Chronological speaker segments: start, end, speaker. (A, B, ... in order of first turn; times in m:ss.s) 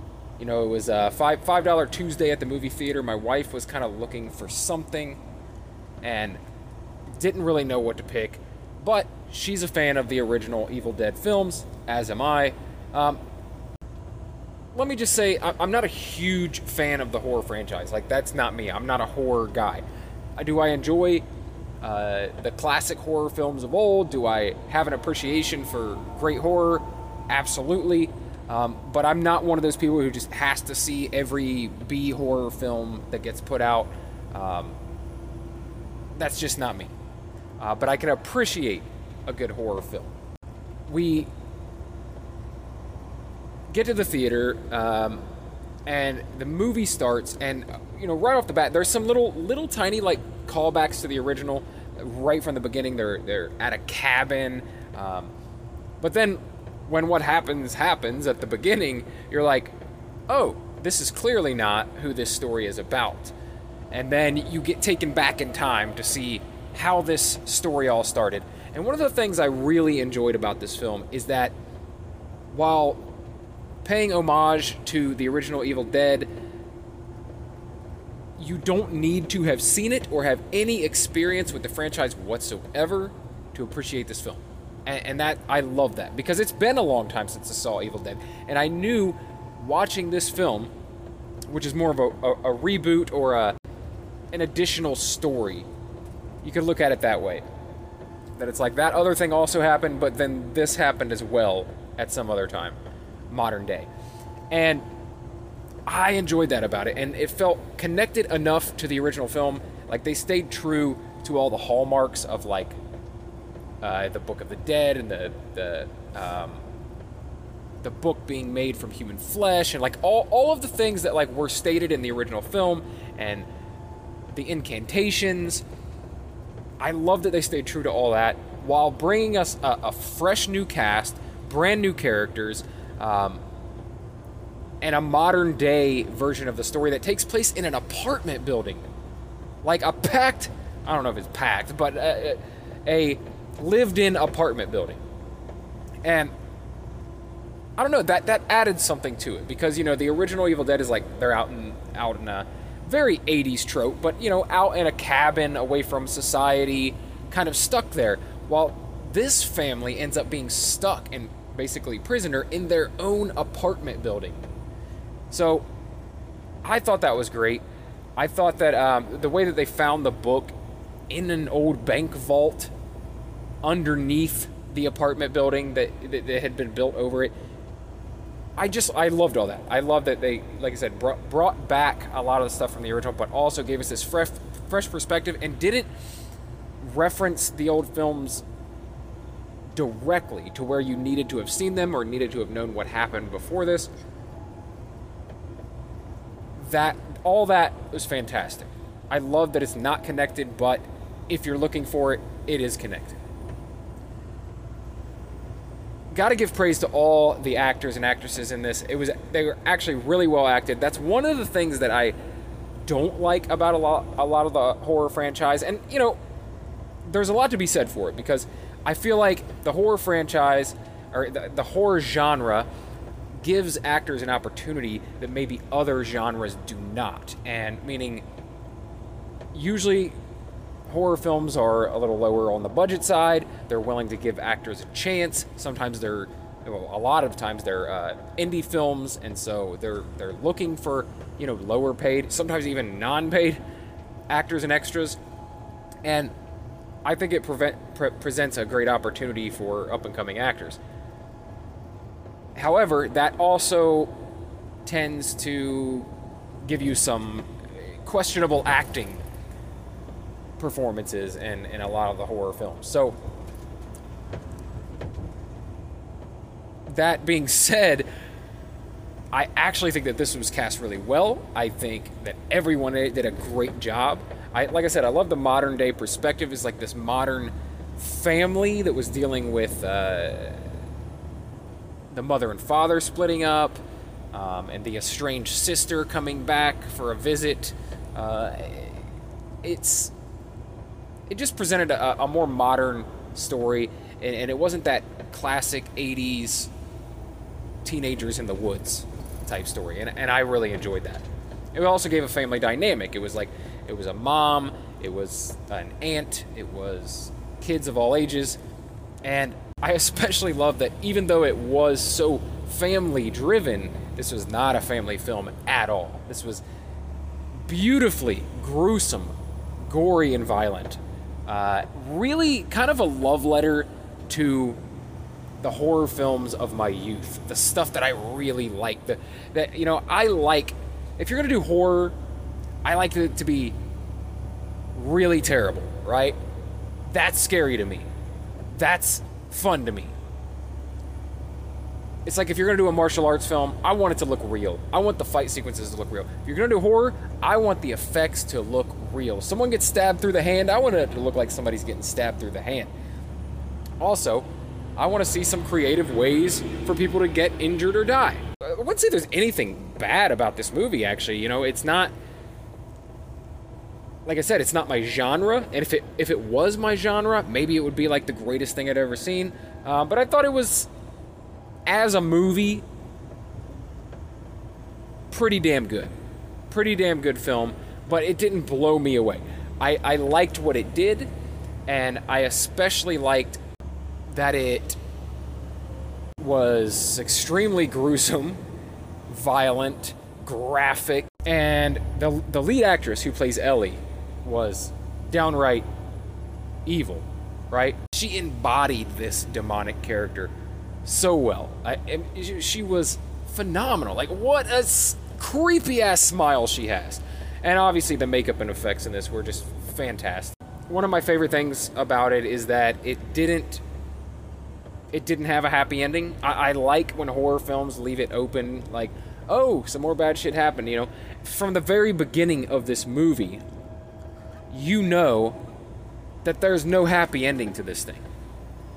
0:00.4-0:05.2 A
0:06.0-0:06.4 A
0:07.2-0:13.2 A
0:14.7-0:19.8 A
0:20.4-0:21.2 A
0:21.8-0:34.8 A
0:36.2-0:36.9 A
0:37.6-0:40.1 A
0:40.9-0:41.3 A
0:43.7-0:45.2 A
0:45.9-0:55.3 A
0:56.0-0:59.7 A
1:00.3-1:03.4 A
1:03.9-1:11.5 A
1:12.5-1:13.1 A
1:13.8-1:16.3 A
1:18.4-1:30.7 A
1:31.5-1:33.6 A
1:34.3-1:35.7 A
1:36.4-1:37.4 A
1:38.4-1:42.8 A
1:43.3-1:43.9 A
1:44.5-1:44.8 A
1:45.9-1:52.8 A
1:53.8-1:56.6 A
1:57.8-2:03.5 A
2:04.3-2:05.6 A
2:06.8-2:13.4 A
2:14.8-2:18.8 A
2:19.6-2:25.0 A
2:26.0-2:26.3 A
2:27.8-2:44.4 A
2:45.3-2:45.7 A
2:46.6-2:47.6 A
2:48.2-2:50.5 A
2:51.1-2:52.7 A
2:53.6-2:57.3 A
2:58.6-3:05.9 A
3:06.8-3:08.4 A
3:09.7-3:13.9 A
3:16.6-3:23.2 A
3:26.1-3:32.2 A
3:32.8-3:36.2 A
3:37.0-3:42.7 A
3:43.4-3:48.2 A
3:49.5-3:50.1 A
3:50.9-4:03.6 A
4:04.3-4:05.2 A
4:06.0-4:06.3 A
4:07.0-4:10.8 A
4:12.6-4:14.1 A
4:14.8-4:16.1 A
4:16.6-4:19.2 A
4:20.6-4:23.1 A
4:26.9-4:28.1 A
4:29.3-4:40.6 A
4:42.1-4:43.8 A
4:44.3-4:49.0 A
4:49.6-4:50.1 A
4:51.3-4:56.7 A
4:57.8-5:08.6 A
5:09.2-5:16.6 A
5:17.6-5:24.8 A
5:25.6-5:32.2 A
5:32.8-5:33.8 A
5:35.0-5:36.4 A
5:37.1-5:38.1 A
5:38.7-5:40.1 A
5:42.3-5:52.9 A
5:54.0-6:02.1 A
6:04.3-6:10.9 A
6:11.9-6:12.8 A
6:15.3-6:16.1 A
6:16.7-6:21.3 A
6:21.9-6:23.6 A
6:24.3-6:25.0 A
6:26.4-6:28.6 A
6:29.3-6:35.9 A
6:36.9-6:40.5 A
6:41.0-6:53.8 A
6:55.1-7:03.6 A
7:04.7-7:05.6 A
7:06.4-7:08.2 A